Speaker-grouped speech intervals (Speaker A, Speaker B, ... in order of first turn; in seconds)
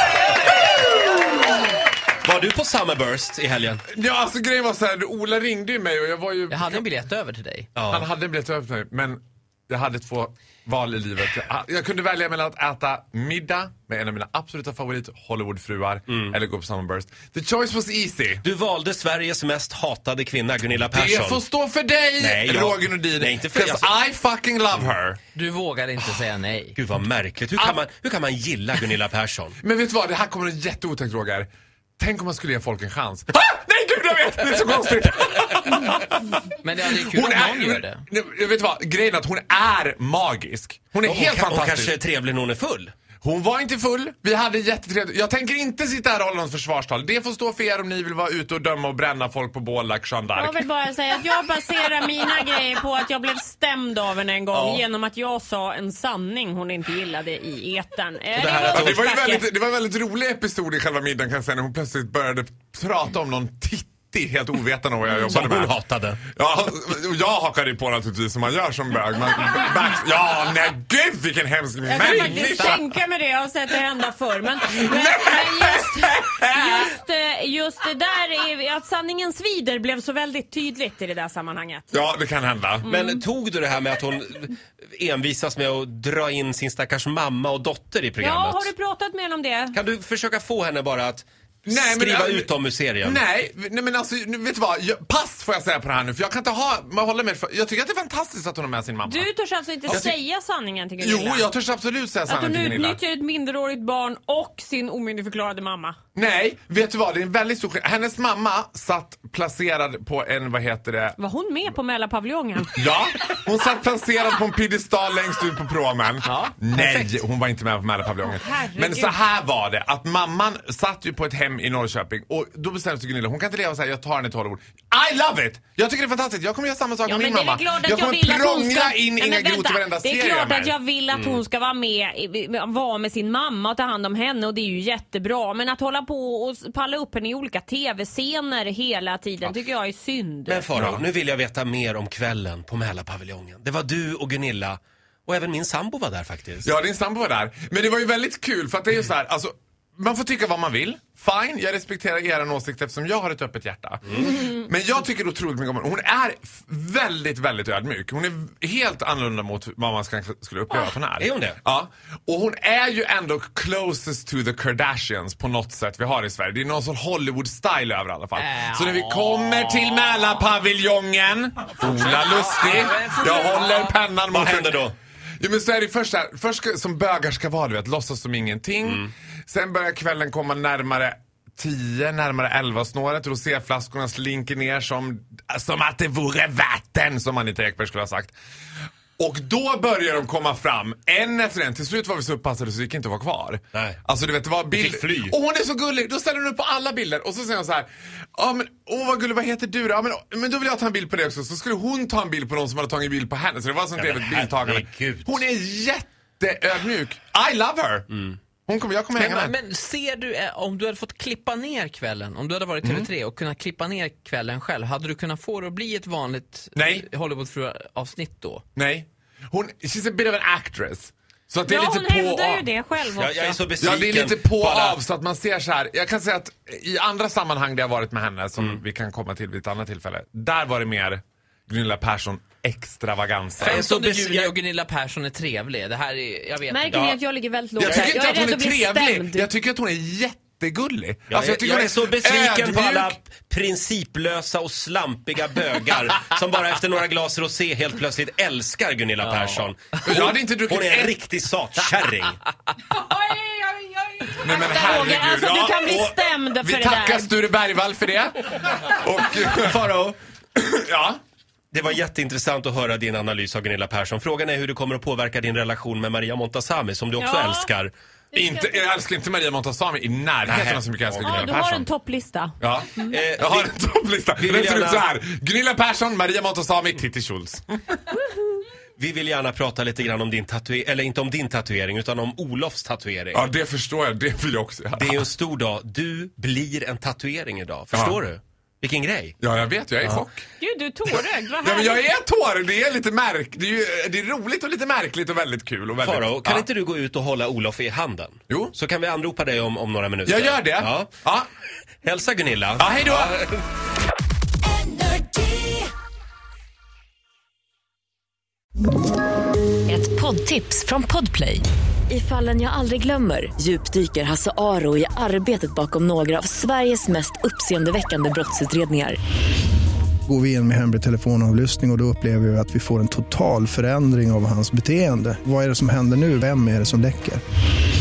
Speaker A: 2.2-3.8, 7.8-8.1, 18.4-21.4, 22.2-23.9, 26.8-29.6, 41.0-42.9, 54.5-54.8, 58.4-59.1, 65.1-66.2, 72.2-72.8, 82.8-88.7, 89.7-93.2, 131.1-131.4, 140.5-146.7, 161.2-161.6, 174.3-174.9, 178.8-179.1, 193.7-194.0, 194.7-195.3, 204.0-205.4, 223.1-225.0, 233.6-234.6, 236.9-237.2, 241.3-252.4, 259.4-260.2, 261.7-267.9, 270.5-271.5, 273.1-273.7, 274.4-275.1, 279.0-283.4, 285.0-289.4, 296.0-301.1, 302.0-302.9
Speaker B: 3.9-6.8, 7.9-18.4, 20.9-25.2, 27.6-27.8, 29.6-42.0, 43.2-50.7, 58.7-65.8, 66.4-72.8, 74.8-76.9, 81.9-82.9, 91.7-92.5, 93.0-99.3, 99.9-100.1, 101.0-103.0, 106.2-111.2, 112.8-130.8, 140.8-141.0, 146.6-174.8, 175.4-188.3, 189.2-208.1, 208.7-209.6, 212.8-213.1, 216.8-217.1, 218.8-222.7, 223.8-233.8, 237.8-243.2, 250.1-251.2, 254.4-259.7, 260.6-261.2, 268.3-271.9, 272.6-278.0, 283.3-285.3, 287.9-288.2, 289.4-290.4, 291.1-296.7, 298.5-298.8, 300.2-301.5, 302.8-303.6
Speaker C: 6.5-7.7, 25.4-26.8, 36.6-38.0, 116.2-117.2, 168.4-170.4, 171.8-174.0, 209.2-218.6, 233.6-237.2, 249.3-249.6
Speaker D: 50.4-59.5, 71.8-81.8, 82.9-83.2, 88.2-89.8, 99.1-101.5, 102.3-106.0, 111.2-112.9, 118.2-119.2, 127.0-140.8, 221.7-223.7, 236.7-239.5, 254.4-257.3, 267.2-267.7, 268.4-268.9, 271.2-272.6, 290.6-292.1
Speaker E: 304.9-305.7, 309.9-319.2
Speaker F: 320.3-327.4